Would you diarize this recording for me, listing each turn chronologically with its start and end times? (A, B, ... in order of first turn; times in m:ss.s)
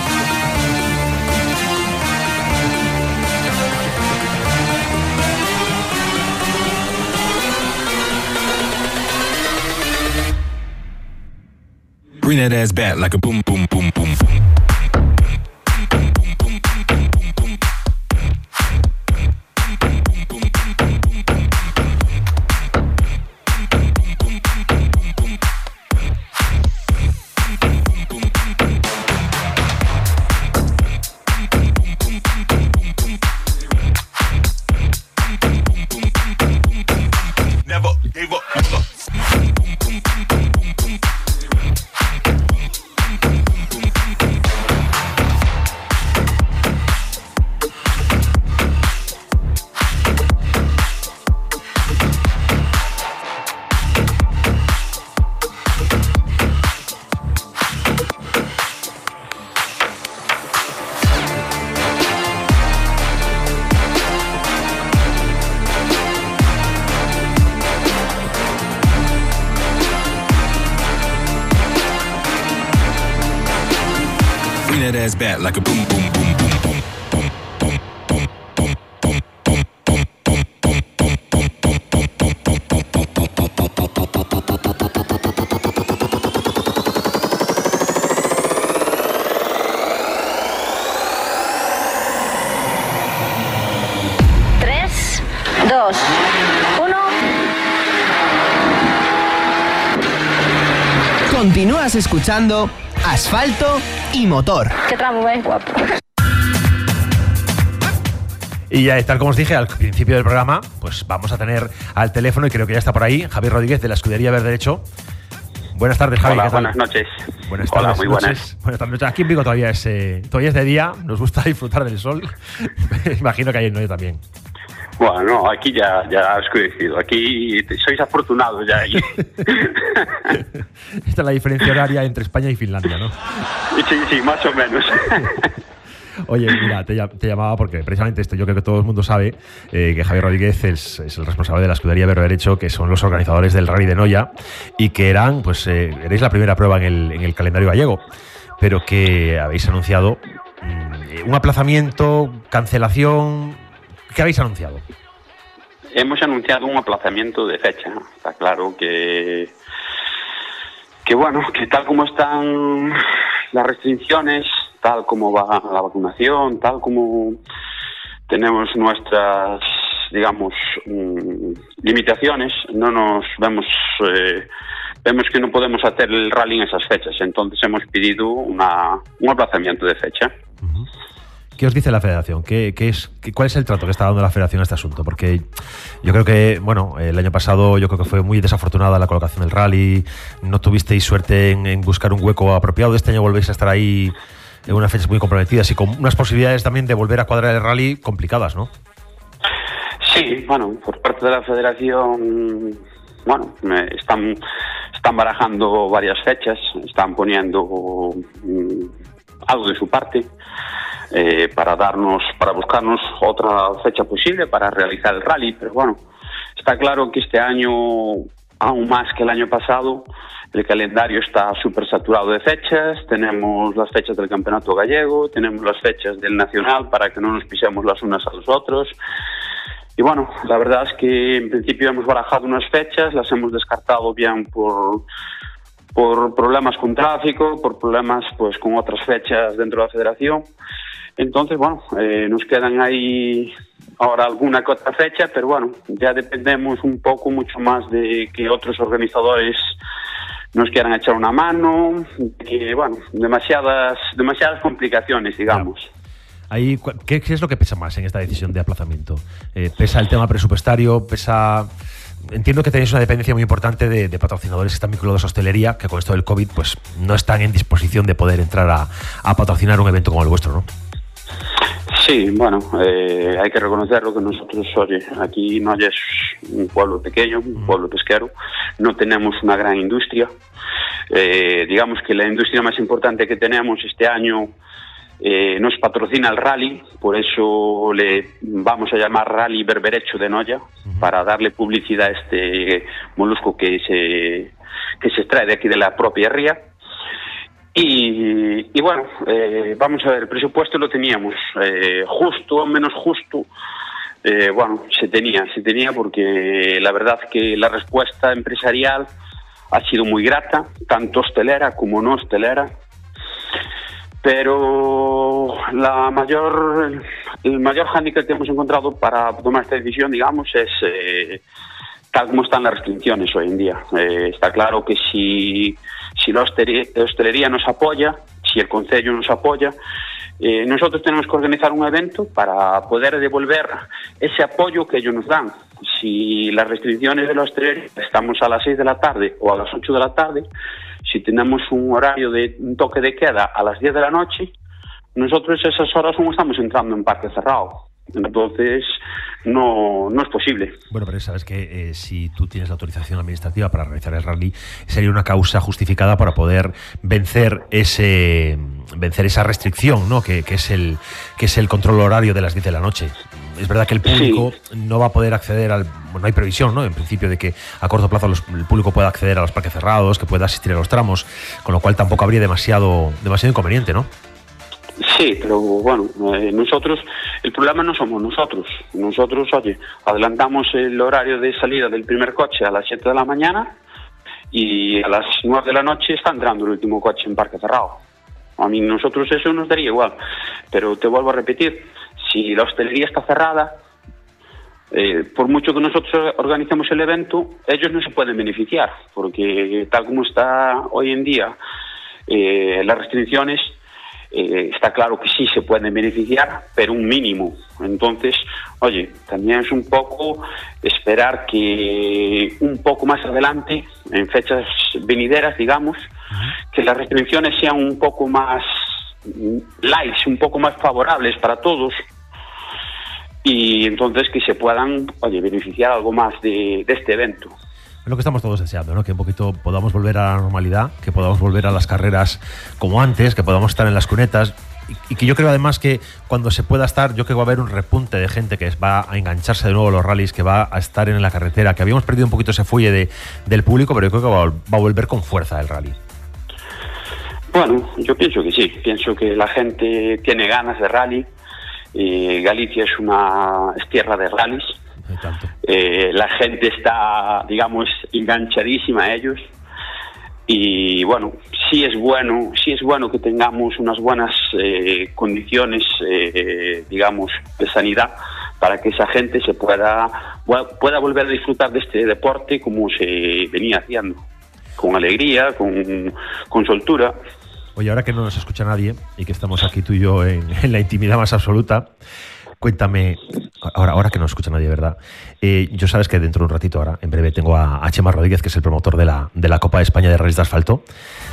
0:12.2-0:14.3 A
0:37.7-0:38.6 A
1:14.6-1:16.8 A
1:34.6-1:36.1 B
1:36.7-1:37.2 B
1:41.3-1:44.7 C
1:44.8-1:45.9 B
1:48.7-1:54.8 D
1:55.7-1:56.7 D
1:56.2-1:57.1 E
1:57.5-2:04.2 D
1:57.7-1:58.4 E
2:05.0-2:09.8 E
2:11.0-2:13.2 D
2:13.7-2:15.4 E
2:16.3-2:28.0 D
2:28.6-2:34.8 D
2:35.9-2:39.5 E
2:41.0-2:43.0 E
2:43.5-2:47.4 E
2:48.3-2:54.5 E
2:55.0-3:00.3 E
3:00.6-3:00.9 D
3:01.6-3:05.5 D
3:06.0-3:14.1 D
3:14.6-3:18.7 D
3:20.0-3:24.4 E
3:24.9-3:28.9 E
3:29.5-3:30.3 E
3:31.1-3:36.0 E
3:36.6-3:48.9 E
3:50.0-3:55.0 E
3:55.9-4:00.5 E
4:01.2-4:09.7 E
4:10.5-4:15.9 E
4:16.5-4:21.7 D
4:22.2-4:30.7 D
4:31.9-4:40.3 E
4:41.1-4:44.5 E
4:45.2-4:56.6 E
4:57.7-5:03.5 E
5:04.2-5:09.1 E
5:09.7-5:12.7 E
5:14.2-5:21.4 E
5:22.1-5:29.7 E
5:30.4-5:40.4 E
5:41.0-5:44.5 E
5:45.2-5:50.7 E
5:50.9-6:14.1 D
6:04.0-6:04.5 E
6:15.0-6:23.7 E
6:24.5-6:28.0 E
6:28.6-6:30.2 E
6:30.7-6:33.7 E
6:34.9-6:41.6 E
6:42.3-6:43.7 E
6:44.3-6:56.0 E
6:56.7-6:58.7 E
6:59.3-7:02.0 E
7:03.4-7:07.5 E
7:08.0-7:26.0 D
7:27.5-7:31.3 E
7:31.9-7:34.7 E
7:35.1-7:35.5 D
7:35.6-7:39.4 E
7:40.5-7:54.2 E
7:54.8-7:57.1 E
7:57.8-8:01.9 D
8:02.6-8:10.8 D